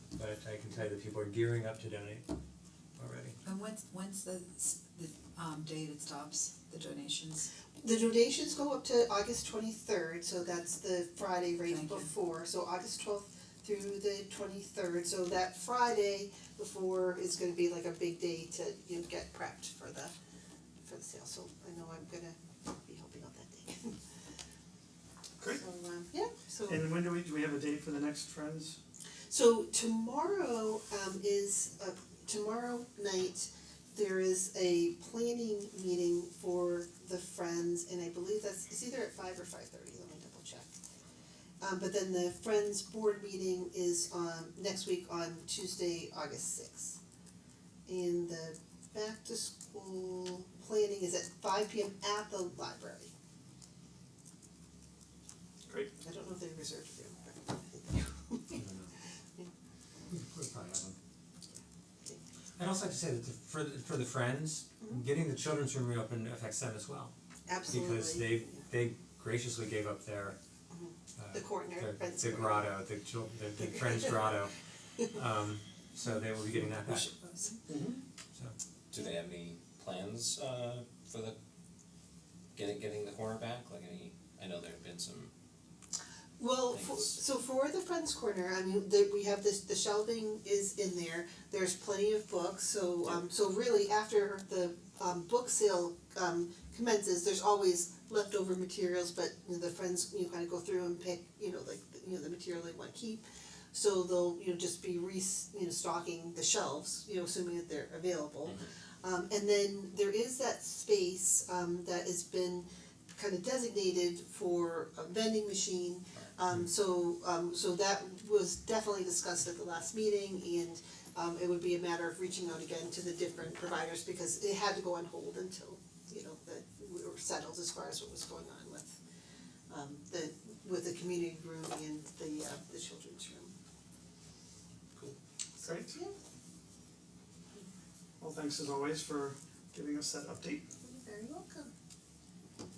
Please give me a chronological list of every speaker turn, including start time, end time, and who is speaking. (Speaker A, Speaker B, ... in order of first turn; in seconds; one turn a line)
Speaker A: 0.1-2.2
Speaker A: 3.0-3.4
Speaker B: 3.4-7.5
Speaker C: 7.8-20.1
Speaker B: 11.6-12.1
Speaker C: 20.8-24.0
Speaker C: 25.5-26.8
Speaker D: 26.7-28.8
Speaker C: 29.3-40.7
Speaker C: 41.6-47.0
Speaker C: 47.9-53.1
Speaker D: 55.7-55.9
Speaker C: 56.0-58.6
Speaker A: 58.5-58.9
Speaker A: 60.1-61.0
Speaker A: 62.6-67.1
Speaker C: 67.5-68.6
Speaker A: 67.7-70.4
Speaker C: 70.7-72.8
Speaker A: 71.2-74.5
Speaker C: 73.8-74.2
Speaker A: 75.1-77.1
Speaker D: 77.7-78.0
Speaker E: 78.9-81.4
Speaker E: 82.5-85.3
Speaker C: 86.4-129.0
Speaker E: 86.7-87.2
Speaker C: 129.7-133.5
Speaker C: 135.6-136.1
Speaker D: 135.6-135.9
Speaker D: 138.2-140.6
Speaker C: 140.8-141.7